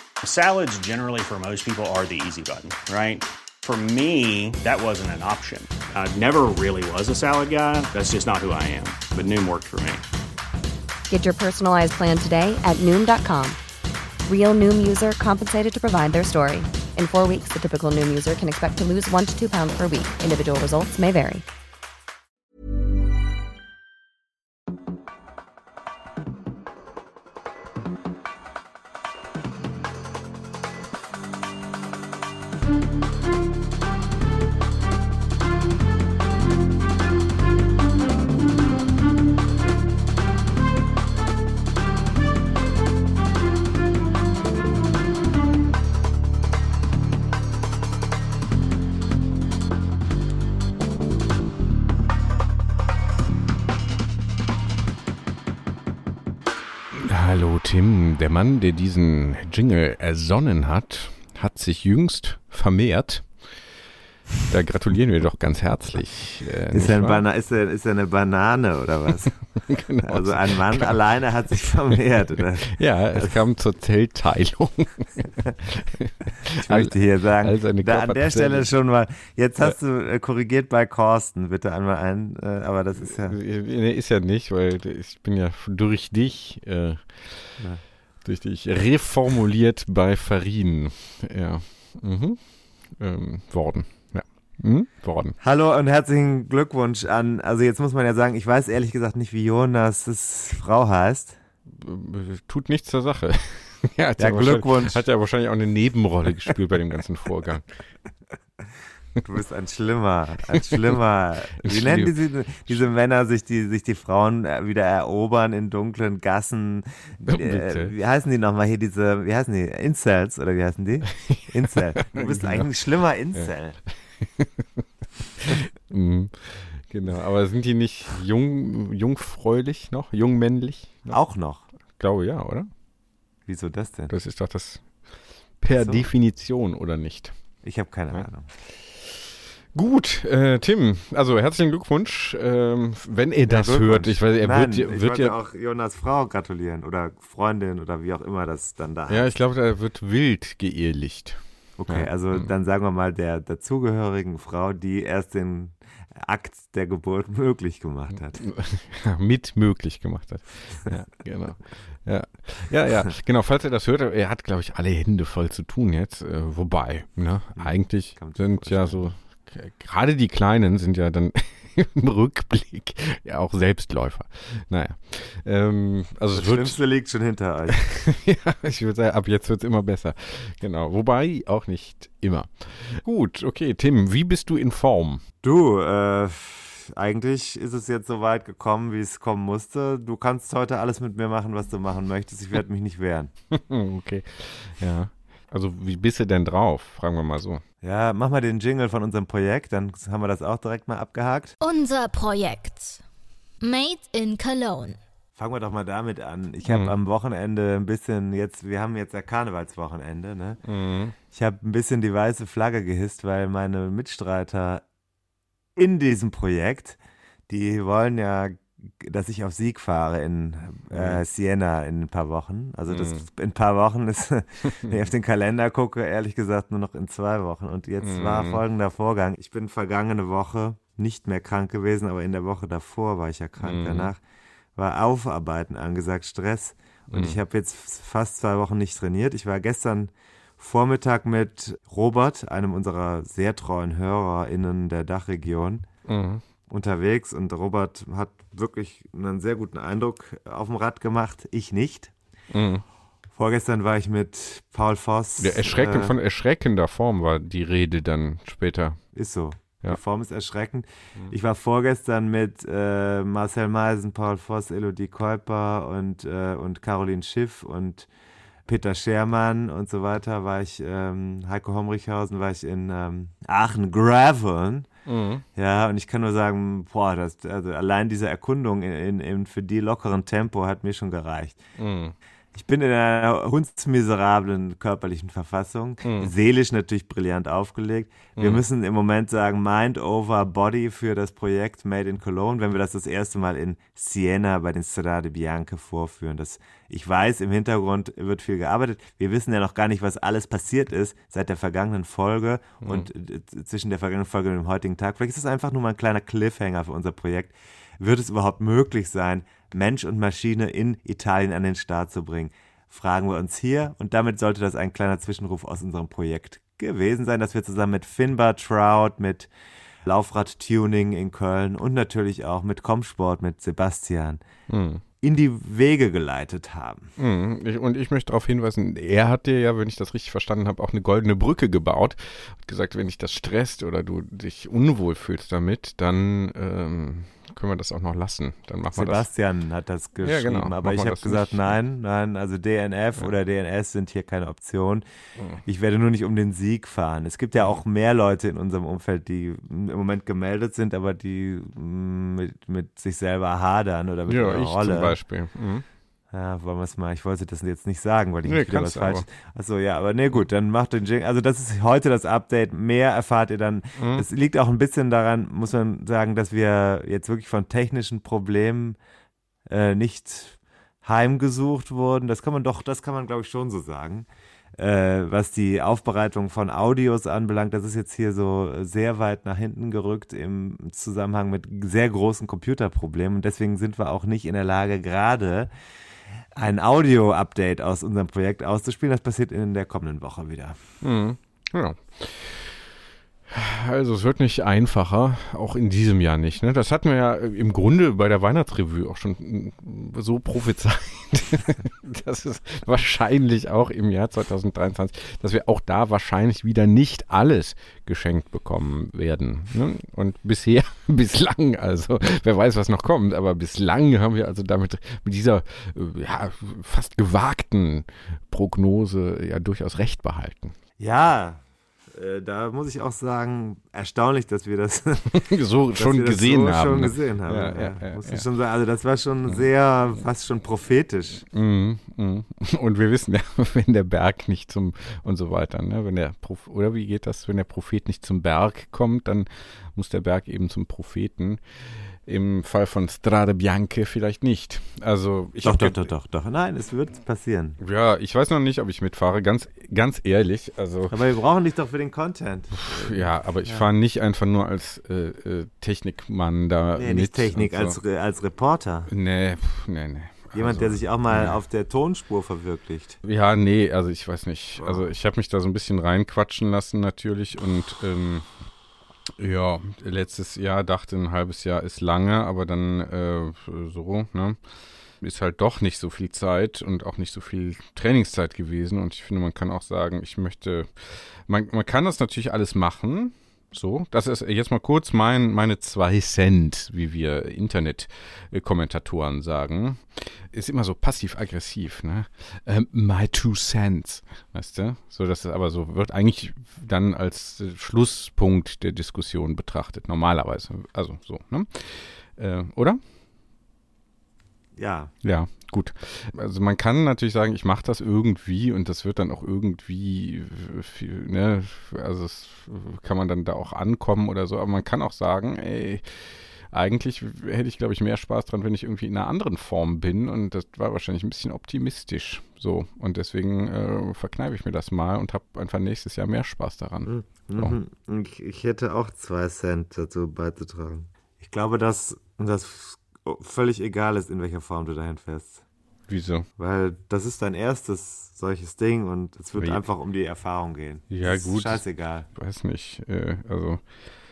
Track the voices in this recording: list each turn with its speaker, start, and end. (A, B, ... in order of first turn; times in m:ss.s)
0:00.2-0:10.0 A
0:11.1-0:13.6 B
0:14.3-0:21.4 B
0:56.9-1:03.8 C
1:04.5-1:07.2 C
1:06.7-1:13.4 D
1:09.6-1:11.0 C
1:12.7-1:18.7 C
1:16.5-1:23.4 D
1:23.0-1:27.6 C
1:27.6-1:27.8 D
1:28.2-1:35.4 C
1:35.4-1:41.4 D
1:41.7-1:47.7 C
1:44.2-1:45.0 D
1:49.2-2:03.8 D
1:51.6-1:52.9 C
1:57.2-1:57.9 C
2:01.2-2:02.7 C
2:04.2-2:04.8 C
2:05.4-2:11.2 C
2:11.1-2:11.7 D
2:11.7-2:12.7 C
2:13.4-2:14.1 D
2:14.1-2:19.1 C
2:15.8-2:16.0 D
2:17.6-2:18.5 D
2:19.7-2:25.4 C
2:23.5-2:29.3 D
2:29.1-2:32.5 C
2:31.8-2:38.5 D
2:38.4-2:56.8 C
2:47.5-2:49.1 D
2:56.3-2:57.8 D
2:57.7-3:05.2 C
3:05.4-3:13.3 D
3:13.5-3:17.6 C
3:17.8-3:21.5 D
3:21.6-3:23.0 E
3:23.6-3:25.0 E
3:25.4-3:30.6 D
3:26.6-3:26.9 C
3:30.6-3:31.1 C
3:31.3-3:34.8 D
3:35.8-3:37.0 D
3:37.5-3:54.2 D
3:40.9-3:41.2 C
3:42.9-3:43.2 C
3:48.0-3:48.6 C
3:53.6-3:54.1 C
3:54.7-4:05.9 D
3:57.1-3:57.4 C
4:06.1-4:06.4 C
4:06.7-4:12.1 D
4:12.5-4:12.8 C
4:13.3-4:16.1 D
4:15.4-4:19.1 C
4:19.1-4:28.1 D
4:28.6-4:34.9 D
4:35.0-4:35.4 C
4:35.5-4:41.6 D
4:41.8-4:42.1 C
4:42.5-5:19.5 D
4:46.0-4:46.3 C
4:48.4-4:48.6 C
5:02.8-5:03.1 C
5:20.0-5:24.4 D
5:24.7-5:25.0 C
5:25.2-5:27.1 D
5:27.2-5:39.3 C
5:38.9-5:45.0 D
5:40.2-5:41.8 C
5:45.4-5:45.6 C
5:45.6-5:55.2 D
5:54.3-5:55.8 C
5:56.3-6:09.0 D
5:58.4-5:59.2 C
6:04.0-6:04.2 C
6:09.7-6:25.7 D
6:26.5-6:30.8 D
6:31.0-6:32.9 C
6:33.5-7:00.8 C
7:01.0-7:01.6 D
7:02.1-7:11.4 D
7:05.3-7:08.5 C
7:11.5-7:26.1 C
7:25.6-7:27.8 D
7:27.8-7:31.1 C
7:31.1-7:33.9 D
7:32.8-7:38.0 C
7:37.0-7:39.1 D
7:39.1-7:41.6 C
7:40.5-7:43.2 D
7:43.2-7:48.5 C
7:44.8-7:45.1 D
7:49.4-7:54.6 C
7:55.2-8:23.0 C
8:24.8-8:25.1 D
8:25.2-8:47.8 C
8:47.0-8:55.6 D
8:56.1-8:56.5 C
8:56.6-9:02.3 D
8:59.6-8:59.8 C
9:01.1-9:03.9 C